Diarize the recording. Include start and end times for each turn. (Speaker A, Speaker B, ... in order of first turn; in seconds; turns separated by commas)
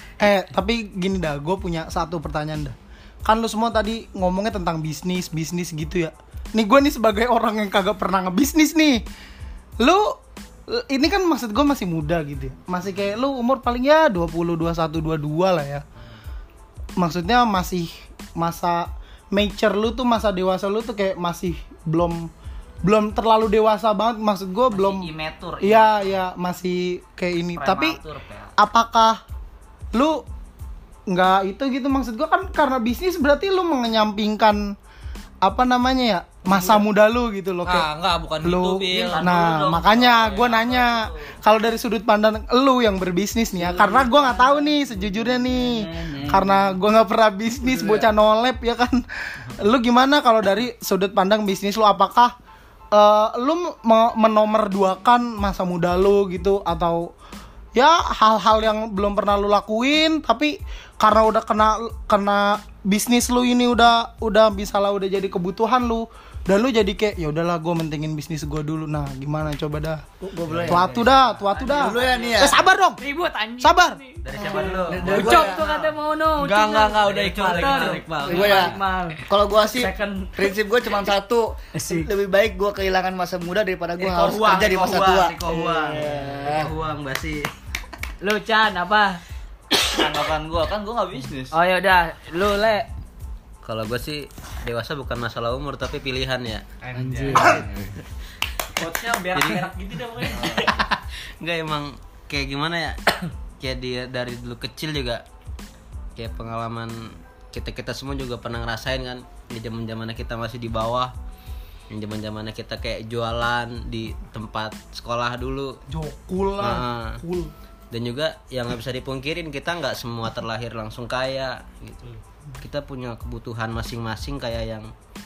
Speaker A: 0.2-9.0, Speaker A: 9.8-15.8, Speaker A: 17.0-22.3, Speaker A: 22.8-25.1, Speaker B: 24.7-26.2, Speaker A: 25.6-28.0, Speaker B: 27.6-28.5, Speaker A: 28.6-29.2, Speaker A: 29.9-30.2, Speaker A: 31.1-34.7, Speaker A: 35.4-37.9, Speaker C: 36.5-36.8, Speaker D: 37.6-39.4, Speaker A: 38.4-52.3, Speaker B: 39.0-41.4, Speaker C: 43.6-46.7, Speaker C: 47.6-48.1, Speaker A: 52.9-57.1, Speaker A: 57.7-70.0, Speaker E: 70.2-70.9, Speaker F: 70.5-71.3, Speaker A: 70.7-73.0, Speaker C: 71.6-72.5, Speaker E: 71.7-72.6, Speaker C: 73.0-80.5, Speaker A: 73.6-74.0, Speaker F: 74.2-75.3, Speaker E: 74.3-75.6, Speaker D: 75.1-78.7, Speaker F: 77.1-78.0, Speaker E: 78.2-86.7, Speaker C: 81.8-82.1, Speaker F: 84.0-87.5, Speaker C: 88.2-89.2, Speaker B: 89.9-91.5, Speaker C: 91.5-92.9, Speaker F: 93.6-96.7, Speaker D: 96.8-97.8, Speaker C: 96.9-97.6, Speaker F: 97.5-97.9, Speaker D: 98.8-100.6, Speaker F: 99.3-99.7, Speaker B: 100.3-100.6, Speaker F: 100.4-103.0, Speaker F: 103.6-105.2, Speaker F: 106.2-111.1, Speaker F: 111.9-115.8, Speaker A: 115.9-117.5, Speaker F: 116.6-117.2, Speaker F: 117.9-124.9